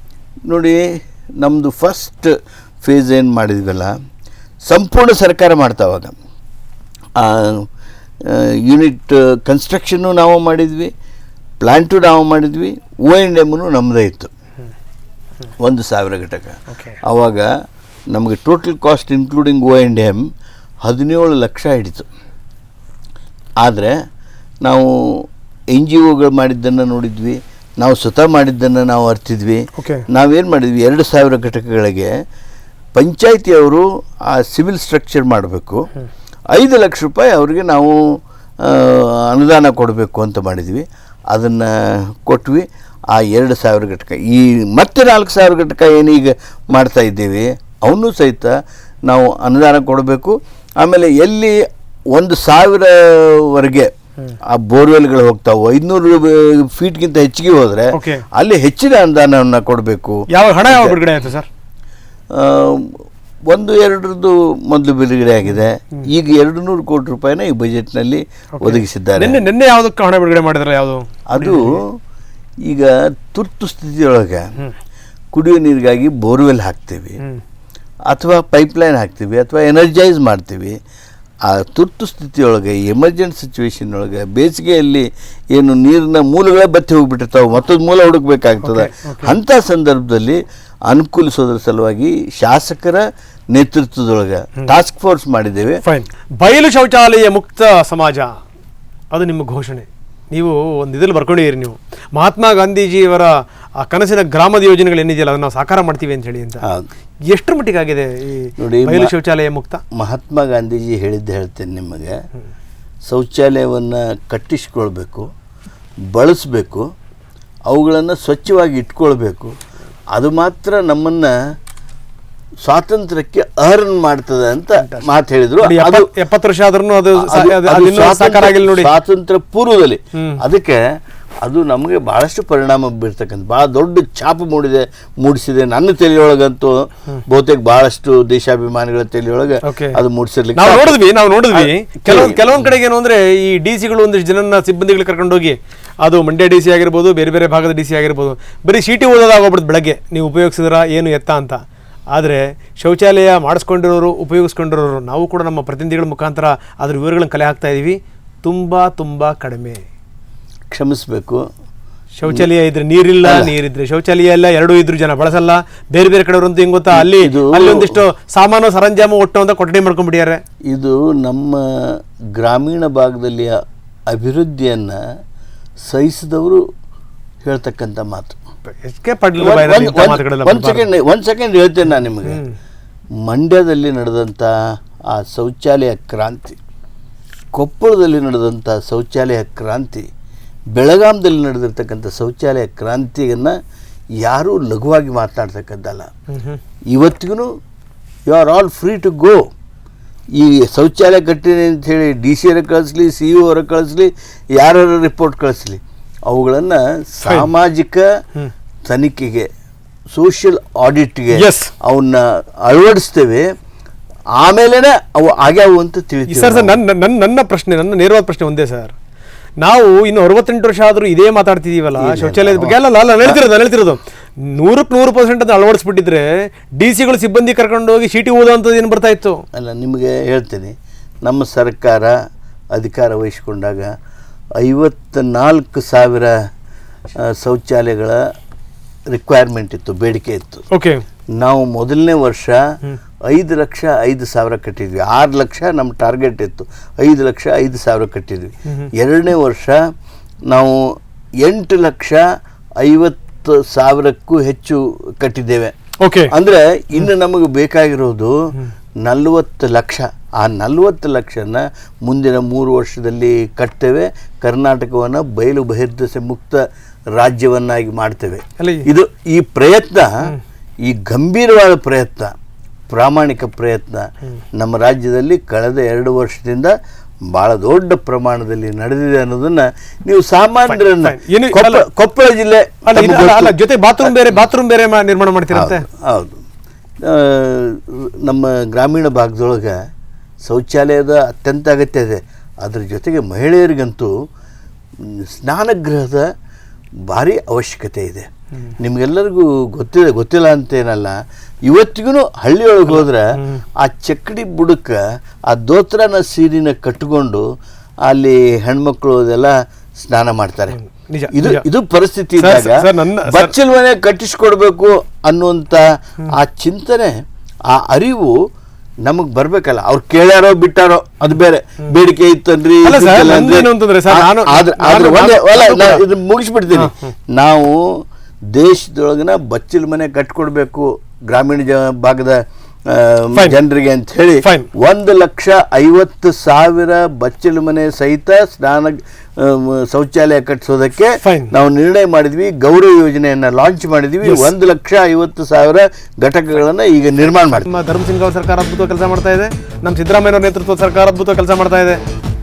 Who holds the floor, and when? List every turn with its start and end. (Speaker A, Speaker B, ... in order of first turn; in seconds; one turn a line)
Speaker A: 0.5-0.8
Speaker A: 1.4-2.3
Speaker A: 2.8-3.9
Speaker A: 4.7-6.1
Speaker A: 7.2-7.7
Speaker A: 8.3-10.9
Speaker A: 11.6-14.3
Speaker A: 15.6-17.5
Speaker B: 16.7-17.0
Speaker A: 18.1-20.2
Speaker A: 20.9-22.1
Speaker A: 23.6-23.9
Speaker A: 24.6-25.2
Speaker A: 25.8-32.1
Speaker B: 29.8-30.1
Speaker A: 33.0-35.8
Speaker A: 36.5-38.0
Speaker A: 38.6-42.6
Speaker A: 43.2-48.5
Speaker A: 49.1-51.6
Speaker A: 52.2-53.9
Speaker A: 54.5-61.0
Speaker B: 57.9-58.2
Speaker B: 60.3-61.5
Speaker A: 62.3-63.0
Speaker A: 63.5-69.4
Speaker B: 68.6-71.8
Speaker A: 71.3-72.0
Speaker A: 72.7-74.5
Speaker A: 75.3-77.2
Speaker A: 78.1-80.8
Speaker A: 81.5-95.8
Speaker B: 88.6-89.3
Speaker B: 95.8-98.4
Speaker B: 99.1-106.6
Speaker B: 107.3-109.8
Speaker A: 108.6-109.1
Speaker A: 110.0-112.2
Speaker A: 113.1-115.3
Speaker A: 116.1-116.9
Speaker A: 117.7-119.5
Speaker A: 120.1-121.3
Speaker A: 122.6-126.1
Speaker B: 124.8-125.1
Speaker B: 125.6-128.9
Speaker A: 127.2-130.8
Speaker B: 130.2-130.4
Speaker A: 131.4-141.0
Speaker B: 139.7-140.0
Speaker B: 140.6-151.6
Speaker A: 141.5-142.5
Speaker B: 152.2-159.8
Speaker A: 160.7-161.4
Speaker B: 162.2-170.4
Speaker A: 163.2-163.5
Speaker A: 166.9-168.0
Speaker A: 170.7-173.6
Speaker A: 174.1-175.0
Speaker A: 175.9-176.6
Speaker A: 177.4-178.4
Speaker B: 178.7-180.9
Speaker A: 179.4-182.4
Speaker B: 182.2-182.6
Speaker A: 183.2-184.5
Speaker A: 185.1-186.6
Speaker A: 187.6-190.1
Speaker A: 190.8-193.6
Speaker A: 194.2-196.1
Speaker B: 196.3-196.6
Speaker A: 196.9-197.5
Speaker A: 198.3-199.4
Speaker A: 200.4-208.1
Speaker A: 208.9-209.5
Speaker A: 210.1-213.5
Speaker B: 211.3-211.7
Speaker A: 214.4-216.8
Speaker B: 216.3-218.9
Speaker B: 219.6-226.3
Speaker A: 222.0-223.4
Speaker B: 226.8-229.4
Speaker A: 229.5-230.7
Speaker A: 231.2-232.2
Speaker A: 232.8-233.9
Speaker A: 234.6-236.3
Speaker A: 237.4-238.2
Speaker A: 239.1-240.7
Speaker B: 240.7-241.0
Speaker A: 241.4-242.6
Speaker A: 243.3-249.8
Speaker A: 250.5-250.8
Speaker A: 251.4-252.2
Speaker A: 252.8-255.7
Speaker B: 256.0-256.3
Speaker A: 256.3-258.4
Speaker A: 259.1-266.6
Speaker A: 267.2-270.1
Speaker B: 268.6-268.9
Speaker A: 270.9-272.3
Speaker A: 272.9-276.7
Speaker A: 277.3-284.1
Speaker B: 280.7-281.9
Speaker B: 282.9-285.9
Speaker A: 285.5-286.4
Speaker A: 287.0-289.8
Speaker A: 290.5-294.1
Speaker A: 295.1-296.3
Speaker A: 297.1-298.3
Speaker A: 298.8-301.2
Speaker A: 301.7-303.3
Speaker B: 302.9-303.6
Speaker A: 303.8-307.4
Speaker A: 308.1-310.8
Speaker B: 310.7-311.6
Speaker A: 311.3-317.2
Speaker B: 312.4-313.5
Speaker A: 317.7-318.3
Speaker A: 319.1-327.8
Speaker B: 322.8-326.0
Speaker B: 326.8-327.1
Speaker A: 328.6-332.4
Speaker A: 332.9-347.7
Speaker B: 341.2-341.5
Speaker B: 344.2-344.5
Speaker B: 347.4-352.0